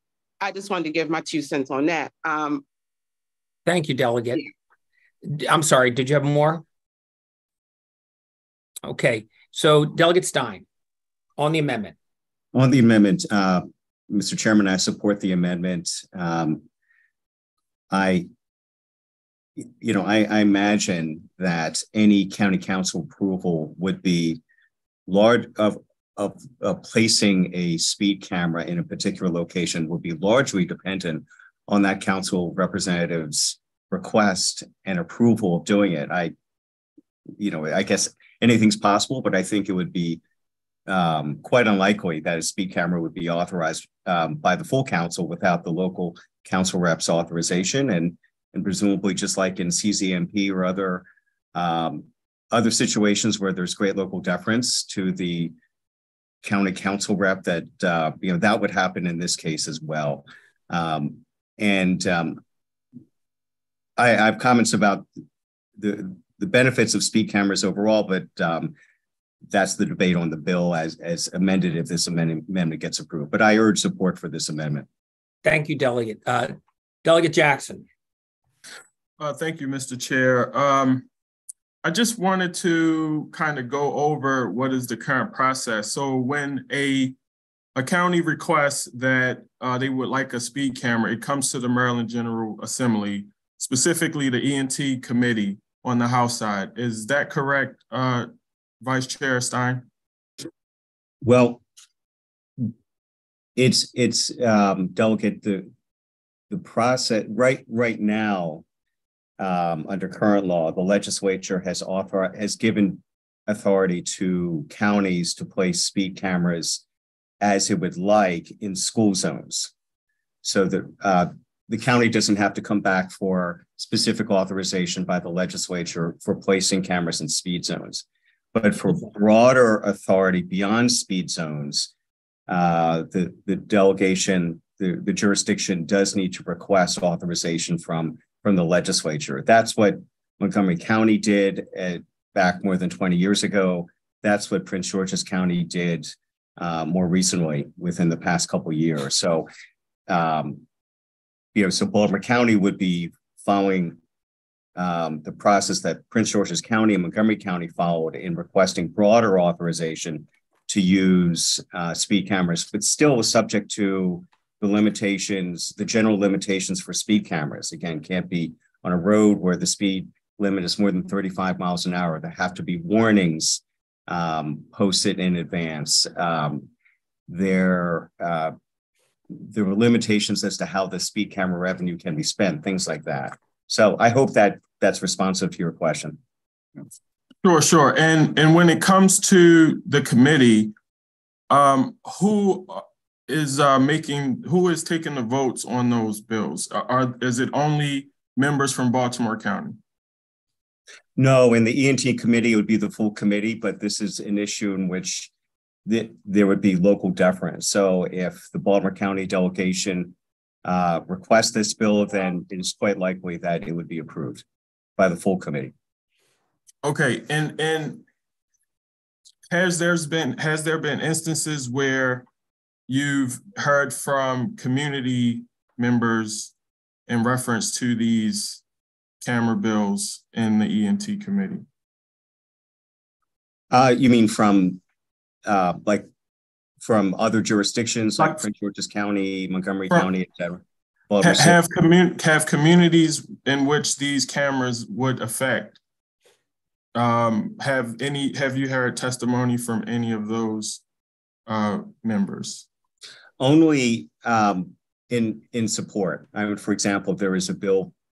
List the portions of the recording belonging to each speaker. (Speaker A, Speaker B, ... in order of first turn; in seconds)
Speaker A: 0.4-2.6
Speaker B: 3.6-4.4, 5.2-6.6, 8.8-10.6, 11.4-11.9, 75.4-77.8
Speaker C: 12.5-16.6, 17.9-18.3, 19.6-24.4, 25.1-36.3, 37.4-40.2, 40.9-55.5, 56.4-62.4, 64.0-65.1, 65.8-68.7, 69.5-74.8, 101.2-101.6, 103.5-105.7, 106.5-108.6, 109.4-116.8, 117.4-119.7, 120.4-128.0, 128.5-131.9, 132.5-149.5, 150.1-150.6, 151.5-154.0, 154.8-176.7, 177.3-178.5, 179.3-186.2, 201.2-205.3, 205.8-214.4, 215.0-215.7, 233.7-234.8, 235.4-236.1, 236.8-241.6, 253.4-257.9
Speaker D: 79.2-81.1, 81.8-87.2, 87.8-98.3, 98.8-99.9, 187.4-190.7, 191.5-199.8, 216.8-218.1, 219.5-222.2, 222.9-226.5, 227.1-228.6, 229.2-231.6, 241.2-245.8, 246.9-250.8, 251.5-252.7